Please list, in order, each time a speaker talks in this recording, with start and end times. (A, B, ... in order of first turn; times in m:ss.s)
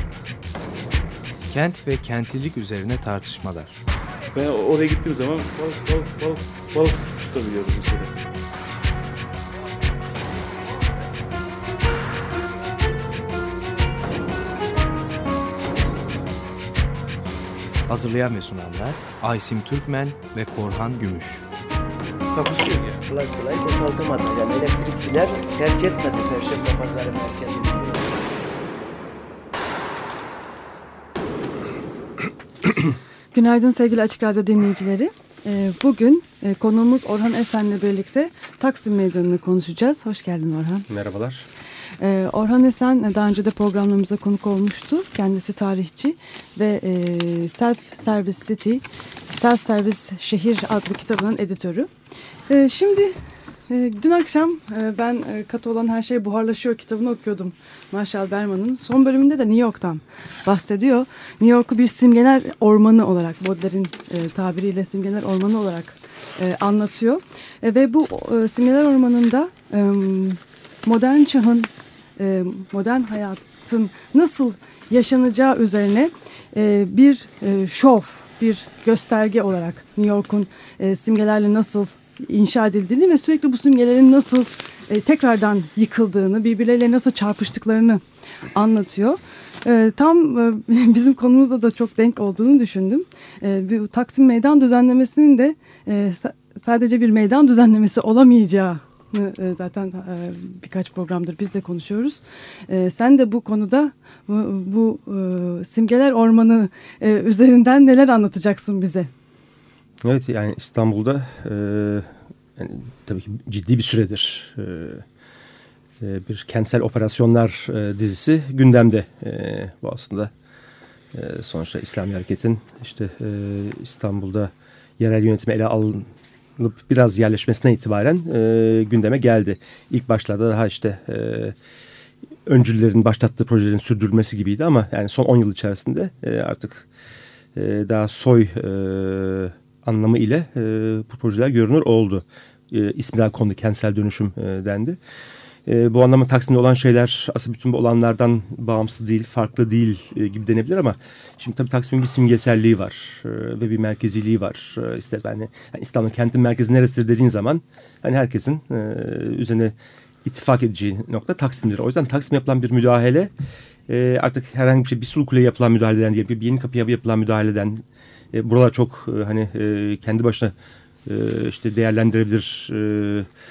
0:01.5-0:03.8 A
0:04.3-0:08.1 B
0:17.9-0:21.4 A
0:22.3-0:23.0 B
0:23.0-0:28.2 C
0:33.3-0:40.9 D
0:40.9-0:41.5 E
0:42.0-0:51.9 D
0:52.5-0:53.1 D
0:53.7-1:28.0 D
1:28.6-1:49.1 D
1:50.0-1:55.0 E
1:56.0-2:00.3 E
2:01.1-2:06.1 E
2:06.6-2:11.6 E
2:12.5-2:16.9 E
2:17.6-2:25.0 E
2:25.7-2:39.7 E
2:40.2-2:43.3 E
2:43.9-2:47.8 E
2:48.3-2:50.5 E
2:51.1-2:53.3 E